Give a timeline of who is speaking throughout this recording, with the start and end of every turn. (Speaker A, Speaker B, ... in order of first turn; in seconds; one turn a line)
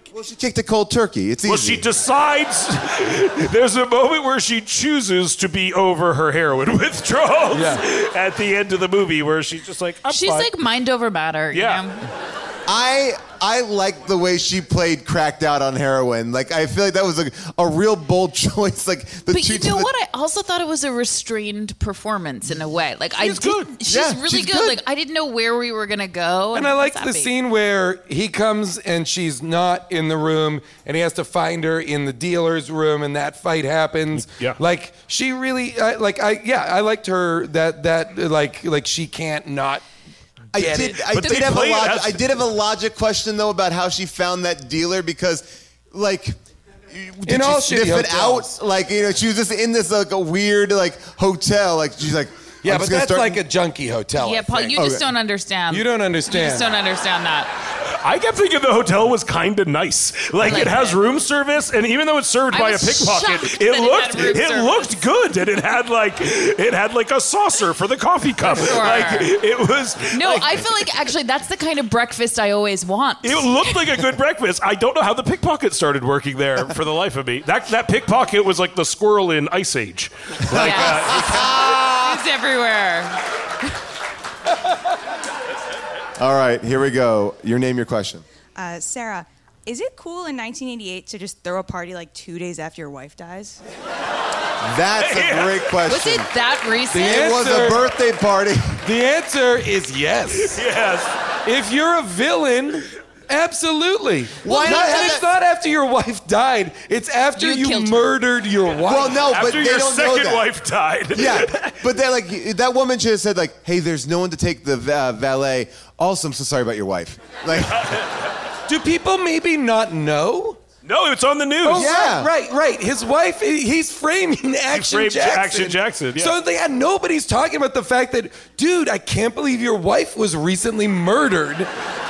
Speaker A: 0.1-1.9
Speaker B: 1.4-10.5
Speaker C: 7.5-7.8
Speaker D: 10.1-12.0
Speaker B: 11.5-11.8
Speaker A: 12.7-19.9
Speaker D: 19.3-27.3
Speaker B: 23.2-23.7
Speaker A: 23.9-24.8
Speaker C: 26.5-39.8
Speaker B: 34.3-34.6
Speaker A: 40.5-46.4
Speaker C: 40.5-41.2
Speaker B: 40.8-42.4
Speaker A: 46.9-53.4
Speaker C: 47.3-48.5
Speaker C: 52.6-54.9
Speaker D: 54.2-57.5
Speaker A: 54.7-55.0
Speaker C: 55.7-56.7
Speaker B: 58.0-70.8
Speaker D: 60.4-61.0
Speaker D: 62.5-65.0
Speaker D: 68.4-69.3
Speaker D: 70.1-73.8
Speaker B: 73.2-81.5
Speaker A: 80.4-82.2
Speaker D: 80.5-83.2
Speaker A: 86.2-88.2
Speaker E: 88.5-93.6
Speaker A: 94.6-96.3
Speaker B: 95.0-95.7
Speaker D: 95.9-97.3
Speaker C: 96.9-97.8
Speaker A: 97.0-98.8
Speaker C: 98.8-100.6
Speaker B: 100.4-101.1
Speaker C: 101.5-109.2
Speaker A: 104.4-105.3
Speaker D: 104.5-105.2
Speaker D: 107.3-108.1
Speaker A: 108.8-110.5
Speaker B: 109.3-111.7
Speaker A: 111.1-118.0
Speaker B: 117.6-118.1
Speaker C: 118.7-120.6
Speaker B: 120.8-121.9
Speaker C: 121.6-131.7
Speaker A: 121.7-122.3
Speaker B: 124.7-126.3